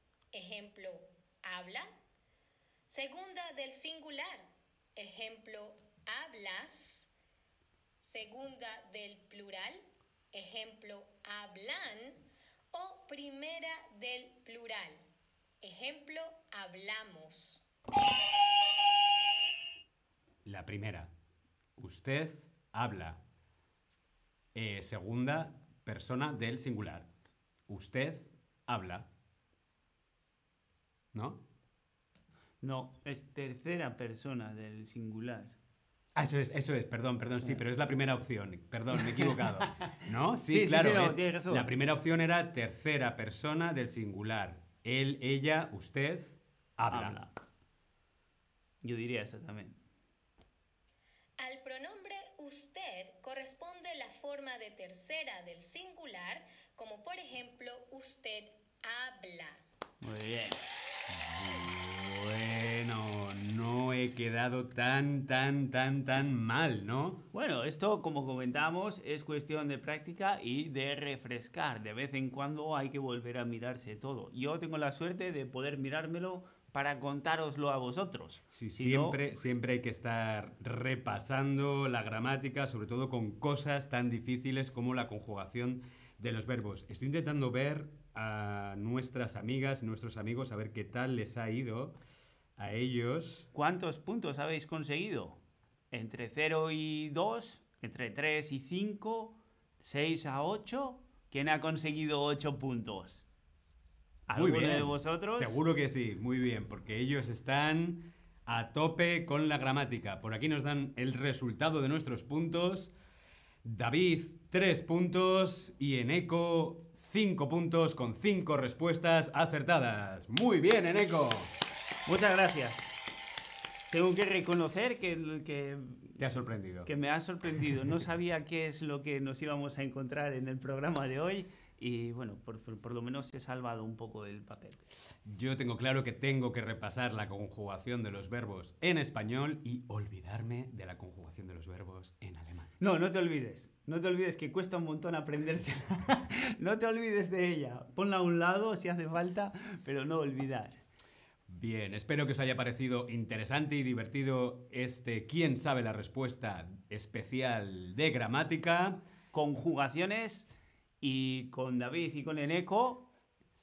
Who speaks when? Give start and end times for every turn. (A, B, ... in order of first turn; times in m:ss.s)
0:00.3-0:01.9 A
0:02.9-0:07.1 A
0:08.0-0:15.1 A
0:15.6-0:17.7 A
0:20.4-0:21.1 B
0:21.8-0:23.2 B
0:24.6-0:27.1 B
0:27.7-0:29.1 B
0:31.1-0:31.4 B
0:32.6-0:35.6 C
0:36.2-0:47.2 B
0:38.9-0:41.7 C
0:46.9-0:47.3 C
0:48.8-0:49.8 C
0:51.4-0:59.6 A
1:00.0-1:00.6 C
1:01.1-1:07.2 B
1:07.3-1:19.2 C
1:18.5-1:32.0 B
1:32.6-1:33.5 B
1:33.5-1:35.4 C
1:35.9-1:43.2 C
1:44.3-1:45.6 C
1:44.3-1:52.9 B
1:53.6-2:01.5 B
2:02.1-2:02.9 C
2:03.9-2:06.2 C
2:06.2-2:06.9 B
2:06.9-2:14.8 C
2:15.3-2:22.7 B
2:22.8-2:30.8 C
2:31.5-2:39.0 B
2:39.3-2:40.5 C
2:41.0-2:43.1 C